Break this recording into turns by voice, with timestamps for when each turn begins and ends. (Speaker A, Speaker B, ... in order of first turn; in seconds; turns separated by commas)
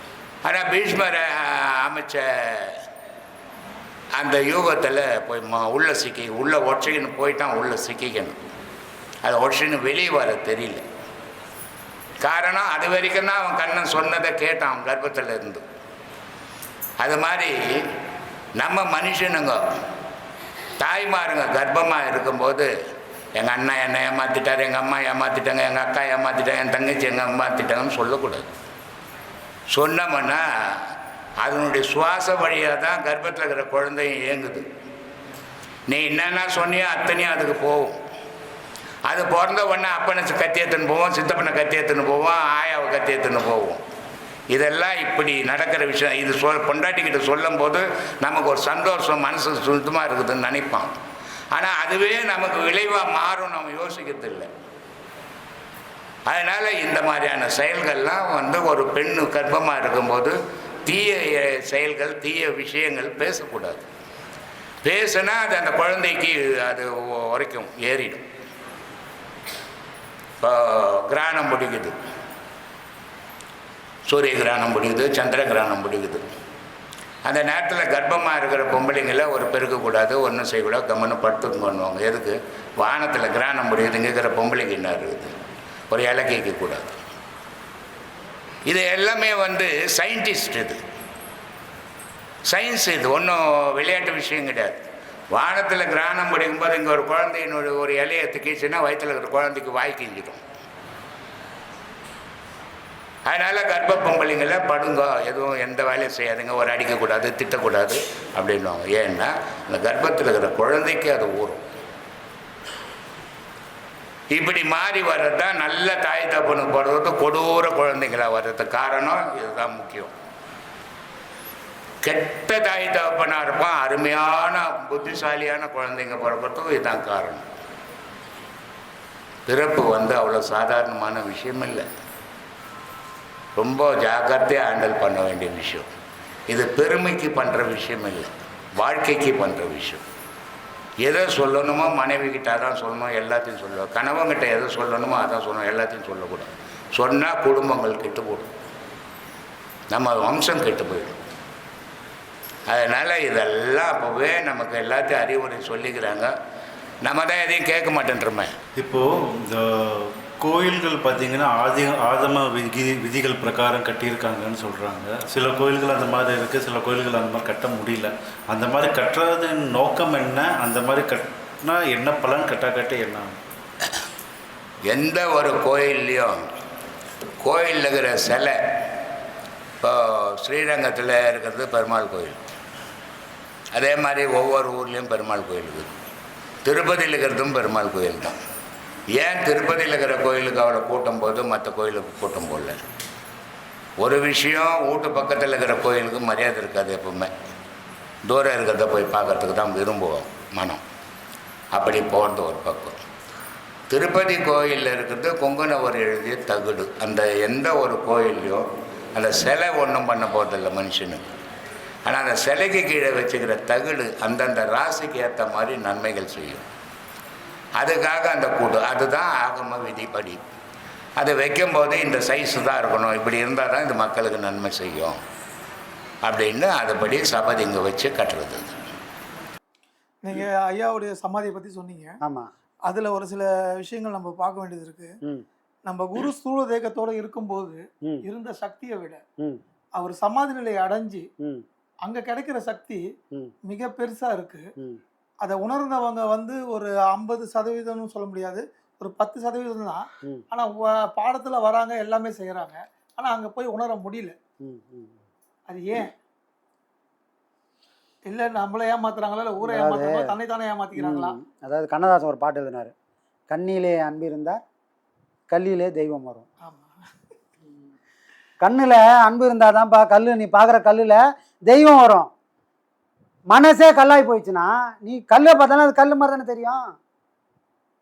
Speaker A: 0.4-2.8, Speaker A: 4.2-8.4, Speaker A: 9.2-10.8, Speaker A: 12.2-15.6, Speaker A: 17.0-17.6, Speaker A: 18.6-19.6, Speaker A: 20.8-22.7, Speaker A: 23.4-28.5, Speaker A: 29.7-34.6, Speaker A: 35.9-38.0, Speaker A: 39.1-43.8, Speaker A: 44.5-50.9, Speaker A: 51.5-54.5, Speaker A: 56.2-63.9, Speaker A: 64.8-68.2, Speaker A: 70.4-71.9, Speaker A: 74.1-76.2, Speaker A: 77.2-85.3, Speaker A: 85.9-87.0, Speaker A: 88.7-90.8, Speaker A: 92.5-100.4, Speaker A: 103.2-111.7, Speaker A: 114.3-120.1, Speaker A: 122.0-127.4, Speaker A: 129.4-131.9, Speaker A: 133.6-135.9, Speaker A: 136.5-140.0, Speaker A: 141.0-148.5, Speaker A: 149.9-151.2, Speaker A: 152.7-156.3, Speaker A: 157.0-158.5, Speaker B: 158.8-173.3, Speaker A: 174.9-176.3, Speaker A: 177.4-178.6, Speaker A: 179.8-182.4, Speaker A: 183.7-186.0, Speaker A: 186.6-188.3, Speaker A: 189.2-192.8, Speaker A: 194.0-197.3, Speaker A: 198.2-200.8, Speaker A: 201.7-203.0, Speaker A: 203.9-211.3, Speaker A: 212.1-216.7, Speaker A: 217.8-220.4, Speaker A: 221.2-225.2, Speaker A: 226.2-228.8, Speaker C: 230.2-232.1, Speaker D: 232.2-232.5, Speaker C: 232.9-235.1, Speaker C: 235.9-239.2, Speaker C: 240.0-241.2, Speaker C: 242.0-243.0, Speaker C: 243.7-244.6, Speaker C: 245.4-254.3, Speaker D: 254.6-255.2, Speaker C: 255.7-256.1, Speaker C: 258.3-261.4, Speaker D: 259.6-260.3, Speaker D: 261.0-262.9, Speaker D: 263.5-264.6, Speaker D: 265.5-266.5, Speaker C: 266.6-266.9, Speaker D: 268.6-272.3, Speaker D: 273.5-276.8